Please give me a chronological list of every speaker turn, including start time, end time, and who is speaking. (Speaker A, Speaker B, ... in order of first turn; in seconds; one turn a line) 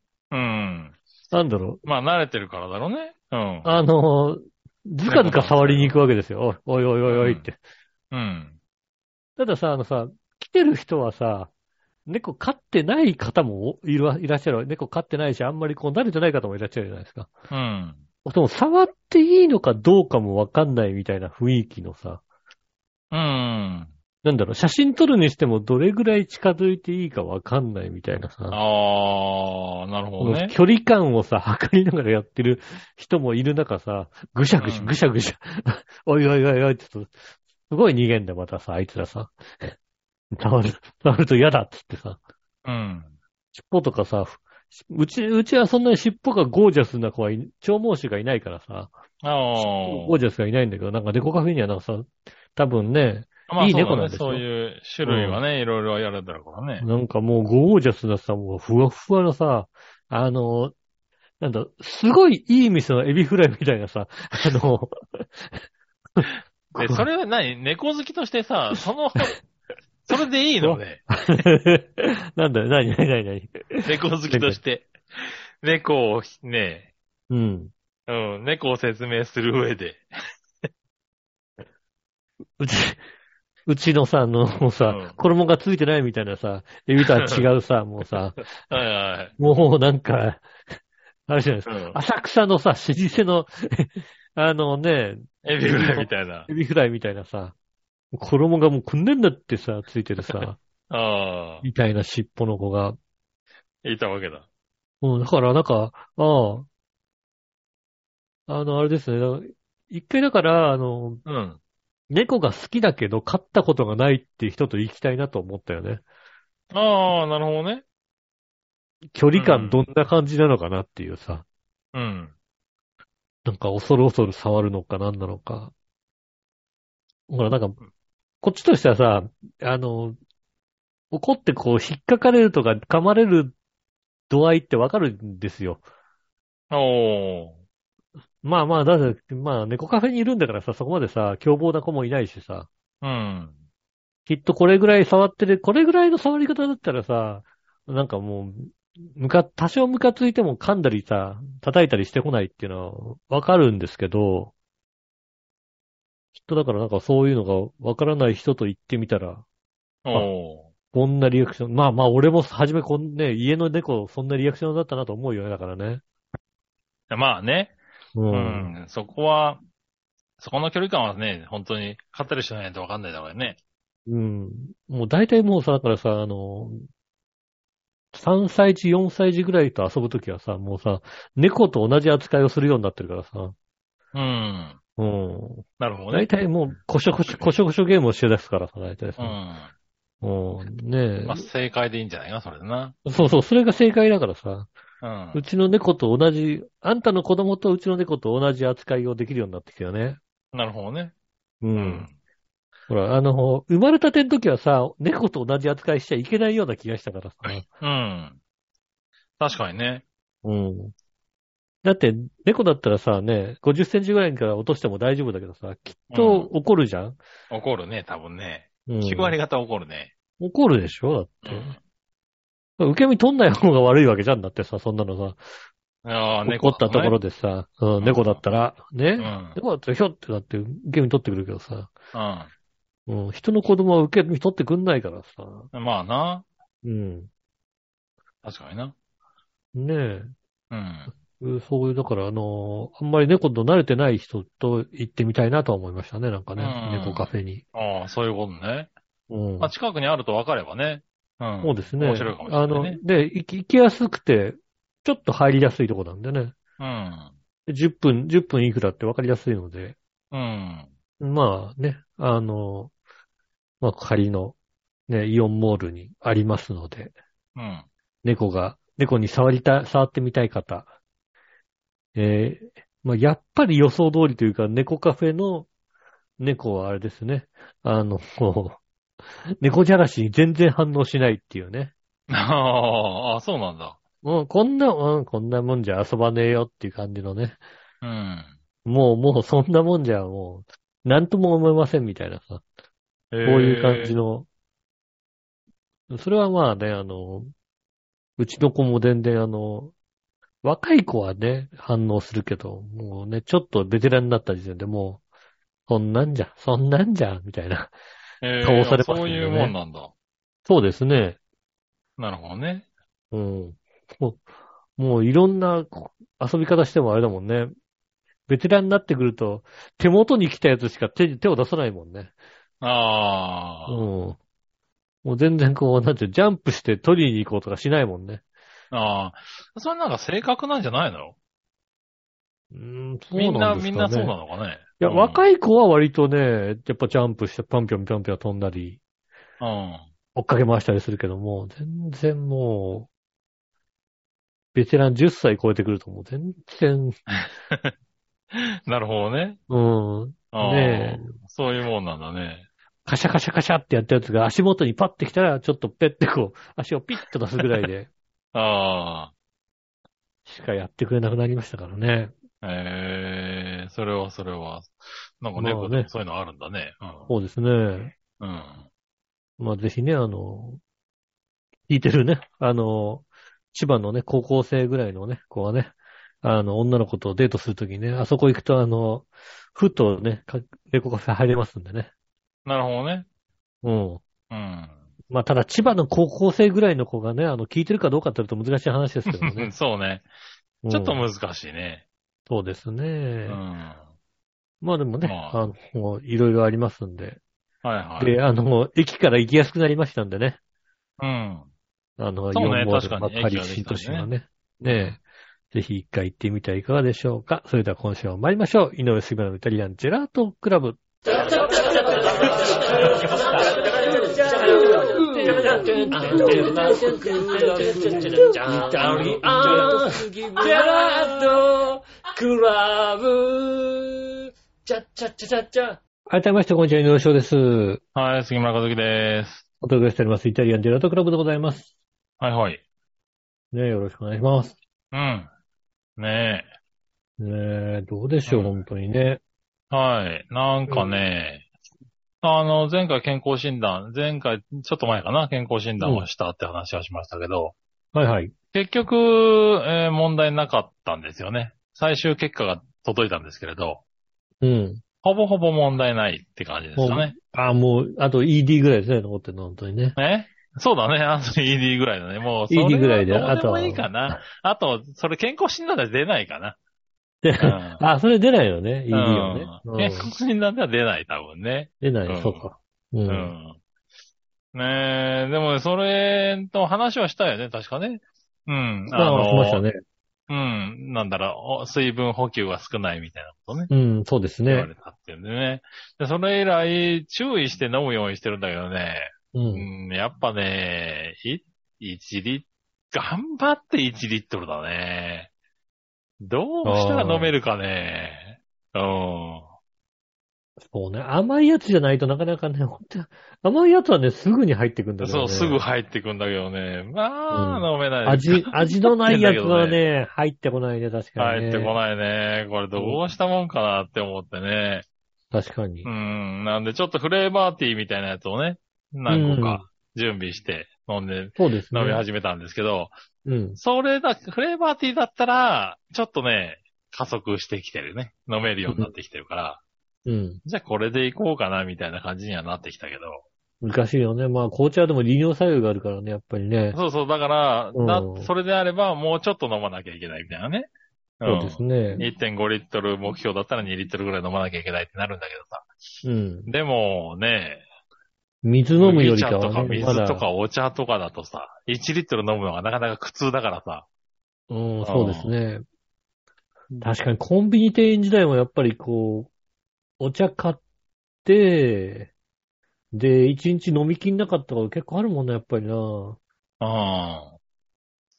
Speaker A: 0.3-0.9
Speaker B: 1.3-1.8
Speaker A: 1.8-3.7
Speaker B: 3.6-7.6
Speaker A: 5.0-5.9
Speaker A: 7.1-7.4
Speaker A: 8.1-8.6
Speaker B: 9.4-11.5
Speaker B: 12.1-17.3
Speaker A: 17.5-18.0
Speaker B: 18.2-22.2
Speaker A: 23.1-23.9
Speaker B: 24.2-28.6
Speaker A: 28.5-30.5
Speaker B: 30.2-39.7
Speaker A: 34.6-34.9
Speaker B: 40.3-42.2
Speaker A: 42.6-43.1
Speaker B: 43.5-48.9
Speaker A: 49.2-50.2
Speaker B: 49.6-54.4
Speaker A: 53.5-56.9
Speaker B: 55.0-55.4
Speaker B: 56.8-60.7
Speaker B: 61.4-65.6
Speaker B: 66.2-67.0
Speaker A: 66.7-69.4
Speaker A: 70.1-71.0
Speaker B: 70.6-74.6
Speaker A: 73.8-76.9
Speaker B: 77.3-77.7
Speaker A: 78.1-80.0
Speaker B: 82.6-83.0
Speaker B: 83.7-88.5
Speaker A: 84.8-85.2
Speaker A: 87.2-87.5
Speaker A: 88.7-89.3
Speaker B: 89.4-90.4
Speaker B: 91.3-97.5
Speaker A: 91.7-92.0
Speaker A: 95.4-96.5
Speaker B: 98.1-100.6
Speaker A: 100.9-101.6
Speaker B: 101.6-103.0
Speaker A: 103.8-104.4
Speaker B: 105.0-106.7
Speaker B: 108.5-111.2
Speaker A: 111.2-111.6
Speaker B: 112.1-116.0
Speaker A: 116.7-117.8
Speaker B: 119.1-121.4
Speaker A: 119.3-119.9
Speaker A: 121.9-122.3
Speaker B: 123.4-125.7
Speaker B: 127.3-127.8
Speaker B: 128.4-130.2
Speaker B: 131.1-133.5
Speaker B: 134.3-135.8
Speaker A: 136.7-137.6
Speaker B: 138.4-142.7
Speaker A: 143.0-143.6
Speaker B: 144.3-154.5
Speaker B: 156.4-159.4
Speaker A: 160.0-160.7
Speaker B: 160.9-166.0
Speaker A: 167.1-167.7
Speaker B: 168.1-168.7
Speaker A: 168.3-169.6
Speaker A: 170.4-173.6
Speaker B: 174.1-176.9
Speaker B: 178.1-183.5
Speaker A: 184.1-184.8
Speaker B: 185.0-189.4
Speaker A: 185.8-186.3
Speaker A: 189.2-189.7
Speaker B: 190.2-191.5
Speaker A: 191.2-193.0
Speaker B: 193.1-194.7
Speaker A: 195.0-195.4
Speaker B: 195.3-200.2
Speaker A: 200.5-201.1
Speaker B: 201.6-202.1
Speaker A: 201.8-202.1
Speaker B: 202.9-207.7
Speaker A: 207.4-208.4
Speaker A: 209.4-210.0
Speaker B: 210.4-210.9
Speaker B: 211.8-217.2
Speaker A: 216.1-216.5
Speaker A: 217.5-220.1
Speaker B: 218.9-219.4
Speaker B: 220.4-221.8
Speaker A: 221.4-221.8
Speaker B: 222.8-225.4
Speaker A: 226.0-227.2
Speaker B: 226.4-231.9
Speaker A: 228.0-228.4
Speaker A: 229.2-229.6
Speaker A: 232.1-232.5
Speaker B: 233.1-235.7
Speaker A: 235.7-236.4
Speaker B: 236.8-237.3
Speaker A: 238.4-238.9
Speaker B: 239.7-240.3
Speaker A: 240.7-241.1
Speaker B: 241.4-247.6
Speaker A: 246.6-248.9
Speaker B: 249.3-249.7
Speaker A: 249.6-253.0
Speaker B: 251.6-256.6
Speaker A: 256.8-257.3
Speaker B: 257.7-260.0
Speaker A: 260.3-260.9
Speaker B: 261.2-262.9
Speaker B: 263.8-264.6
Speaker B: 265.1-267.1
Speaker A: 267.5-267.9
Speaker B: 268.2-270.9
Speaker B: 272.1-275.7
Speaker B: 276.4-278.8
Speaker B: 279.6-281.9
Speaker A: 282.3-284.0
Speaker B: 284.2-287.6
Speaker A: 288.0-288.5
Speaker B: 288.8-292.6
Speaker A: 293.3-294.1
Speaker B: 293.4-294.5
Speaker B: 296.1-297.5
Speaker B: 298.4-299.9
Speaker B: 300.6-305.2
Speaker B: 305.9-307.9
Speaker A: 308.4-310.1
Speaker B: 308.6-309.7
Speaker B: 310.6-311.4
Speaker A: 312.2-312.9
Speaker B: 313.3-314.4
Speaker B: 315.0-317.7
Speaker B: 318.5-322.3
Speaker A: 322.8-324.0
Speaker B: 323.9-324.4
Speaker B: 325.2-328.4
Speaker A: 328.9-331.3
Speaker B: 332.7-334.3
Speaker A: 333.3-335.4
Speaker B: 335.0-339.0
Speaker A: 339.6-340.1
Speaker B: 340.3-343.1
Speaker B: 344.7-347.1
Speaker A: 347.3-347.9
Speaker A: 348.5-349.6
Speaker B: 349.7-351.3
Speaker A: 350.5-352.7
Speaker B: 353.0-358.1
Speaker A: 358.5-359.3
Speaker B: 360.4-362.3
Speaker A: 362.6-367.3
Speaker B: 365.6-366.1
Speaker B: 367.3-368.1
Speaker A: 368.4-368.9
Speaker B: 369.6-370.8
Speaker B: 371.9-382.1
Speaker A: 382.6-383.3
Speaker B: 383.8-384.2
Speaker A: 384.5-385.0
Speaker B: 385.3-389.7
Speaker A: 389.3-390.2
Speaker B: 390.8-391.2
Speaker A: 390.9-392.0
Speaker B: 392.5-393.6
Speaker A: 393.5-394.0
Speaker B: 394.8-397.4
Speaker A: 395.2-395.6
Speaker A: 397.8-398.4
Speaker B: 398.2-400.6
Speaker A: 401.2-401.7
Speaker B: 402.2-411.7
Speaker A: 402.5-404.3
Speaker A: 404.8-405.2
Speaker C: 411.7-426.0
Speaker B: 414.5-420.2
Speaker B: 426.3-428.0
Speaker A: 428.1-429.6
Speaker B: 429.8-431.9
Speaker A: 432.4-432.8
Speaker B: 433.7-434.8
Speaker A: 435.1-435.5
Speaker A: 436.2-436.7
Speaker B: 437.4-439.4
Speaker A: 438.4-438.7
Speaker A: 439.9-441.6
Speaker B: 440.9-441.1
Speaker A: 442.4-447.7
Speaker B: 446.0-446.3
Speaker B: 448.1-448.5
Speaker A: 448.7-454.0
Speaker B: 454.6-455.0
Speaker A: 455.2-457.3
Speaker B: 457.0-460.2
Speaker A: 460.2-466.8
Speaker B: 462.7-464.4
Speaker B: 467.4-470.3
Speaker A: 467.6-468.0
Speaker A: 469.1-472.6
Speaker B: 472.0-473.5
Speaker A: 473.3-473.8
Speaker A: 474.7-479.8
Speaker B: 479.1-480.0
Speaker A: 480.5-483.9
Speaker B: 483.9-484.9
Speaker A: 484.7-495.5
Speaker B: 489.5-489.9
Speaker A: 496.4-499.7
Speaker B: 496.8-497.5
Speaker B: 500.8-505.8
Speaker A: 505.2-510.0
Speaker B: 507.5-511.9
Speaker A: 511.4-515.0
Speaker B: 512.9-513.2
Speaker B: 515.5-516.1
Speaker A: 516.0-523.1
Speaker B: 519.3-519.8
Speaker B: 521.5-522.2
Speaker B: 523.4-523.8
Speaker A: 523.8-529.8
Speaker B: 528.9-529.1
Speaker B: 530.2-530.6
Speaker A: 530.6-533.4
Speaker B: 533.8-537.0
Speaker A: 536.9-540.9
Speaker B: 537.9-538.5
Speaker A: 541.4-545.9
Speaker B: 541.4-542.2
Speaker B: 546.2-546.7
Speaker A: 546.7-547.8
Speaker B: 548.6-550.5
Speaker A: 549.0-554.0
Speaker B: 554.7-555.8
Speaker A: 555.0-555.5
Speaker B: 557.0-559.5
Speaker B: 560.2-560.8
Speaker B: 561.4-562.3
Speaker B: 563.1-566.4
Speaker A: 566.8-567.6